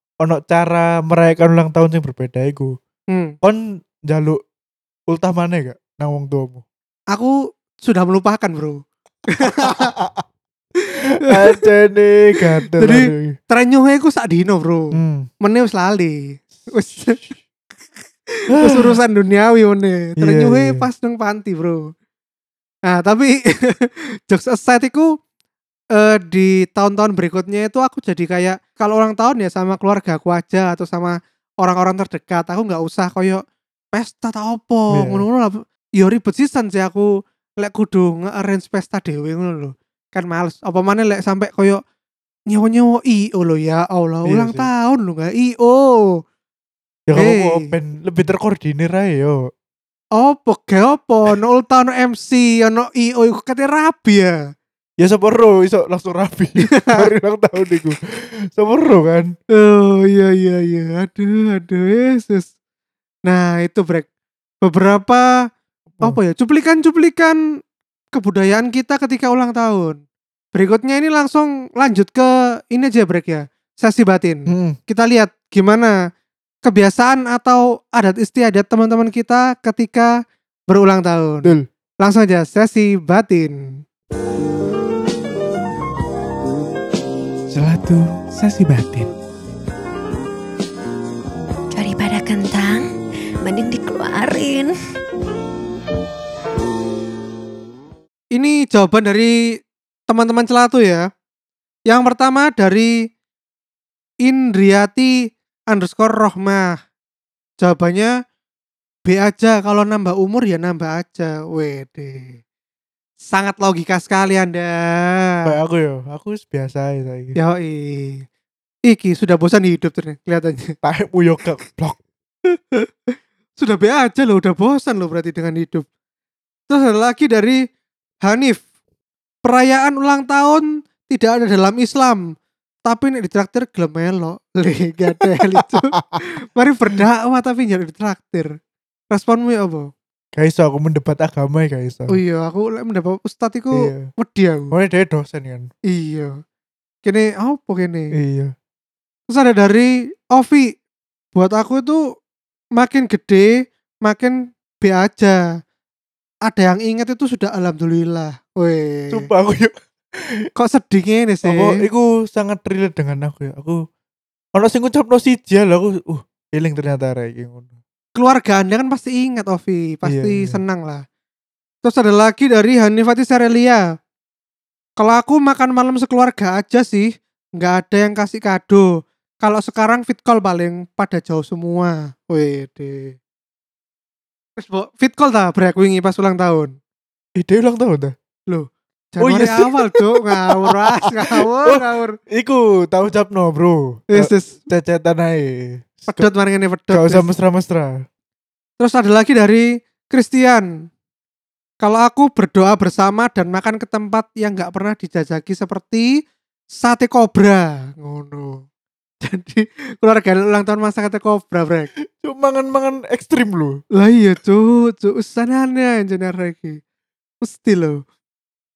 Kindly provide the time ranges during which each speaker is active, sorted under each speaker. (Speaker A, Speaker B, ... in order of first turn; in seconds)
Speaker A: 0.2-2.7, 3.4-4.4, 5.1-6.6, 9.6-10.2, 11.2-13.3, 14.9-15.3, 18.5-19.0, 20.2-20.9, 34.9-35.2, 44.2-44.7, 47.1-49.5, 55.0-59.3, 74.5-74.8, 87.5-89.1, 115.5-117.4, 120.8-122.0, 135.2-136.2, 140.3-142.2, 143.7-144.1, 144.7-145.7, 148.1-148.5, 159.1-160.4, 161.4-163.8, 164.5-167.8, 170.0-170.6, 187.4-188.1, 189.2-196.3, 196.9-198.0, 212.2-213.8
Speaker B: 7.1-8.8, 9.3-9.9, 10.8-11.6, 12.6-17.3, 18.3-21.8, 22.9-25.1, 25.9-33.4, 33.9-37.1, 37.6-41.8, 42.5-46.2, 47.1-47.7, 50.1-54.4, 56.6-57.1, 59.5-62.5, 63.2-64.1, 64.6-65.3, 66.0-67.4, 68.1-70.0, 70.5-75.9, 76.6-80.1, 80.7-83.8, 98.3-99.4, 100.1-101.1, 101.9-102.9, 104.2-105.1, 105.7-106.7, 107.6-108.1, 109.0-112.4, 113.3-115.5, 117.3-118.2, 118.9-120.7, 122.5-125.8, 126.7-127.6, 128.2-128.6, 129.4-132.2, 132.8-136.0, 136.5-138.5, 139.1-139.9, 142.1-144.7, 145.9-146.3, 147.0-148.1, 149.3-150.7, 151.3-152.0, 152.8-153.5, 154.0-155.4, 156.5-159.3, 160.6-161.8, 168.2-171.0, 171.8-173.8, 175.0-178.9, 179.4-183.2, 184.6-186.7, 188.5-192.2, 194.1-194.6, 196.1-197.2, 198.8-200.7, 201.8-206.1, 206.8-208.6, 209.2-211.9, 214.0-216.8, 217.4-218.0
Speaker C: 91.7-92.9, 93.4-94.7